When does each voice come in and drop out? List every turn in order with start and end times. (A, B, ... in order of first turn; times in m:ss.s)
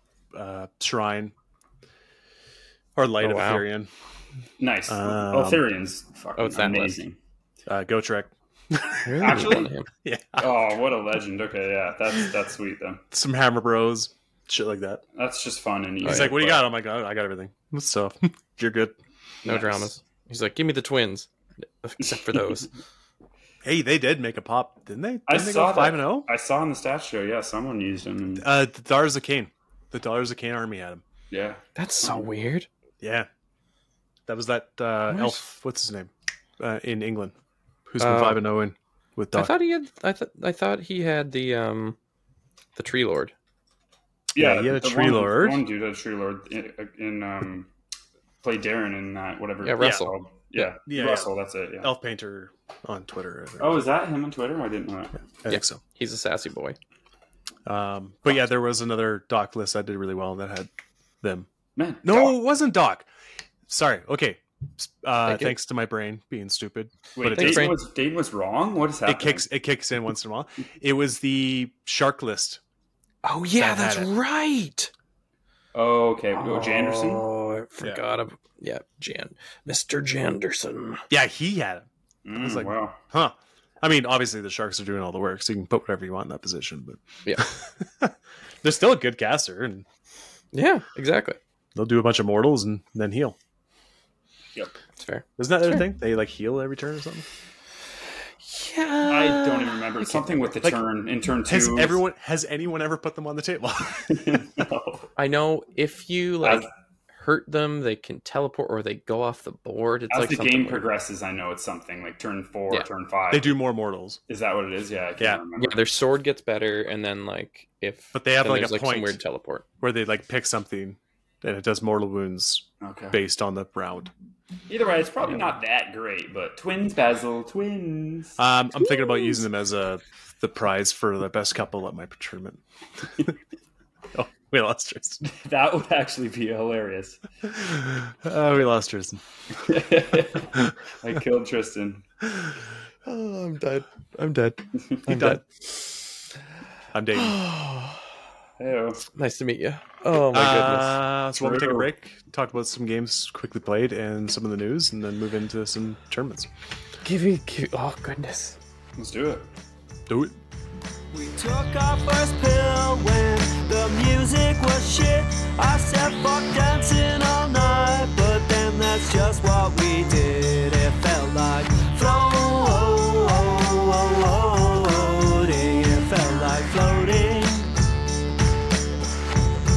0:00.3-0:01.3 A
0:03.0-0:03.9 A
0:03.2-0:03.6 B
0:04.6-0:07.2 C
0:04.9-0:05.6 A
0:06.4-0:07.0 B
0:07.7-0:10.8 A
0:09.0-0:09.9 B
0:09.2-0:09.7 C
0:10.4-0:13.0 C
0:13.1-0:15.0 A
0:15.1-0:16.7 C
0:16.0-0:16.3 B
0:16.0-0:19.0 A
0:19.4-0:19.9 C
0:19.4-0:21.3 B
0:21.8-0:22.7 B
0:22.0-0:22.7 C
0:23.6-0:26.3 A
0:25.3-0:28.5 C
0:28.4-0:31.0 A
0:31.3-0:32.2 C
0:31.8-0:32.7 B
0:33.0-0:33.3 A
0:34.3-0:37.3 A
0:35.1-0:35.4 B
0:37.9-0:39.5 A
0:38.0-0:38.4 B
0:39.3-0:42.0 B
0:42.8-0:43.3 B
0:44.3-0:47.7 C
0:44.4-0:45.6 A
0:48.4-0:51.9 C
0:49.6-0:50.1 B
0:49.8-0:53.9 A
0:53.6-0:55.2 C
0:55.4-0:55.8 A
0:55.5-0:56.8 B
0:57.6-1:00.7 A
1:01.2-1:01.5 A
1:01.8-1:02.4 C
1:02.0-1:03.1 A
1:03.7-1:07.7 A
1:05.2-1:05.6 B
1:07.2-1:09.4 C
1:07.3-1:07.8 B
1:09.0-1:12.6 A
1:13.2-1:14.9 B
1:13.6-1:14.1 A
1:15.7-1:17.2 C
1:16.4-1:21.0 B
1:21.1-1:29.8 A
1:22.2-1:23.0 C
1:30.5-1:31.4 B
1:31.7-1:33.4 A
1:35.0-1:35.9 B
1:35.4-1:37.3 A
1:38.4-1:40.6 B
1:39.0-1:42.0 C
1:41.4-1:44.5 A
1:44.1-1:45.1 C
1:45.2-1:50.9 B
1:46.4-1:46.7 C
1:50.1-1:53.6 C
1:53.3-1:54.2 A
1:54.3-1:55.8 C
1:55.6-1:59.6 B
1:58.1-1:59.2 A
1:59.8-2:04.1 A
2:02.8-2:03.2 C
2:04.7-2:08.4 C
2:08.4-2:12.6 A
2:14.1-2:15.2 A
2:15.2-2:17.2 C
2:17.5-2:19.2 A
2:19.5-2:22.0 C
2:23.0-2:25.4 B
2:25.1-2:25.4 A
2:26.9-2:27.4 A
2:27.1-2:28.0 B
2:28.6-2:29.0 C
2:29.1-2:31.0 B
2:30.2-2:36.5 A
2:31.4-2:31.9 C
2:37.0-2:38.6 B
2:39.0-2:39.5 C
2:40.1-2:40.4 A
2:41.1-2:57.7 D